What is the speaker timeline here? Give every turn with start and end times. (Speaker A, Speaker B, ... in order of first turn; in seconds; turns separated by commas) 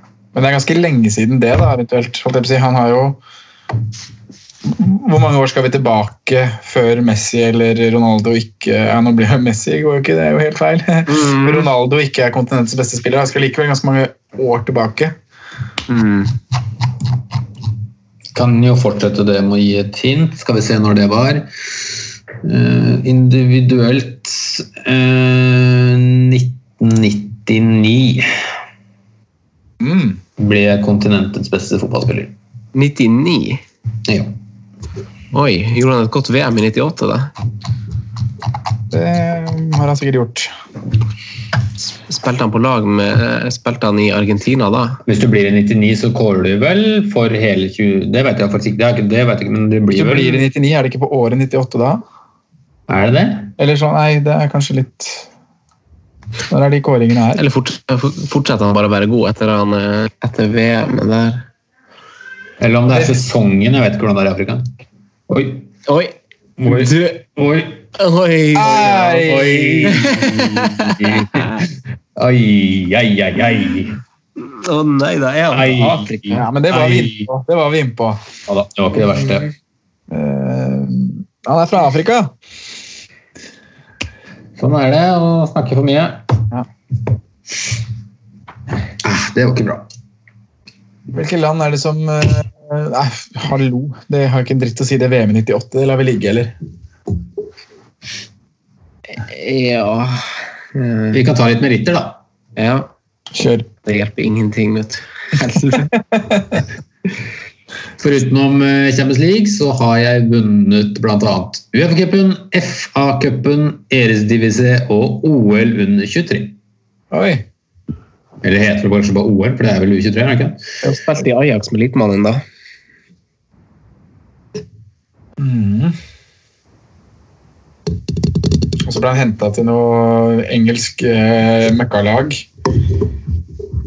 Speaker A: 0.3-3.2, Speaker A: 4.7-15.2, Speaker B: 11.1-11.7, Speaker B: 15.9-16.3, Speaker C: 18.3-21.5, Speaker C: 22.4-28.3, Speaker A: 29.8-30.2, Speaker C: 30.4-32.4, Speaker B: 32.8-33.6, Speaker C: 34.1-34.3, Speaker B: 35.3-37.3, Speaker A: 38.9-40.5, Speaker B: 41.9-45.0, Speaker C: 45.0-50.5, Speaker A: 50.0-52.0, Speaker C: 52.9-53.5, Speaker A: 53.6-55.3, Speaker A: 56.5-57.4, Speaker B: 57.4-61.5, Speaker C: 62.6-64.7, Speaker A: 62.9-63.1, Speaker C: 65.3-65.7, Speaker B: 65.9-67.2, Speaker C: 66.6-67.9, Speaker B: 68.0-71.6, Speaker A: 68.5-69.8, Speaker C: 69.5-71.5, Speaker C: 72.2-74.0, Speaker B: 74.4-76.4, Speaker C: 75.5-77.3, Speaker A: 76.3-78.2, Speaker C: 78.5-79.5, Speaker A: 80.1-82.3, Speaker C: 84.6-86.3, Speaker C: 89.0-89.9, Speaker A: 91.1-96.5, Speaker B: 99.2-101.2, Speaker C: 101.1-102.2, Speaker B: 102.6-102.9, Speaker A: 103.3-103.7, Speaker B: 103.8-105.9, Speaker A: 106.1-106.6, Speaker C: 108.0-116.6, Speaker A: 117.1-117.5, Speaker C: 118.4-120.7, Speaker B: 120.8-122.4, Speaker A: 125.4-126.0, Speaker A: 128.8-132.5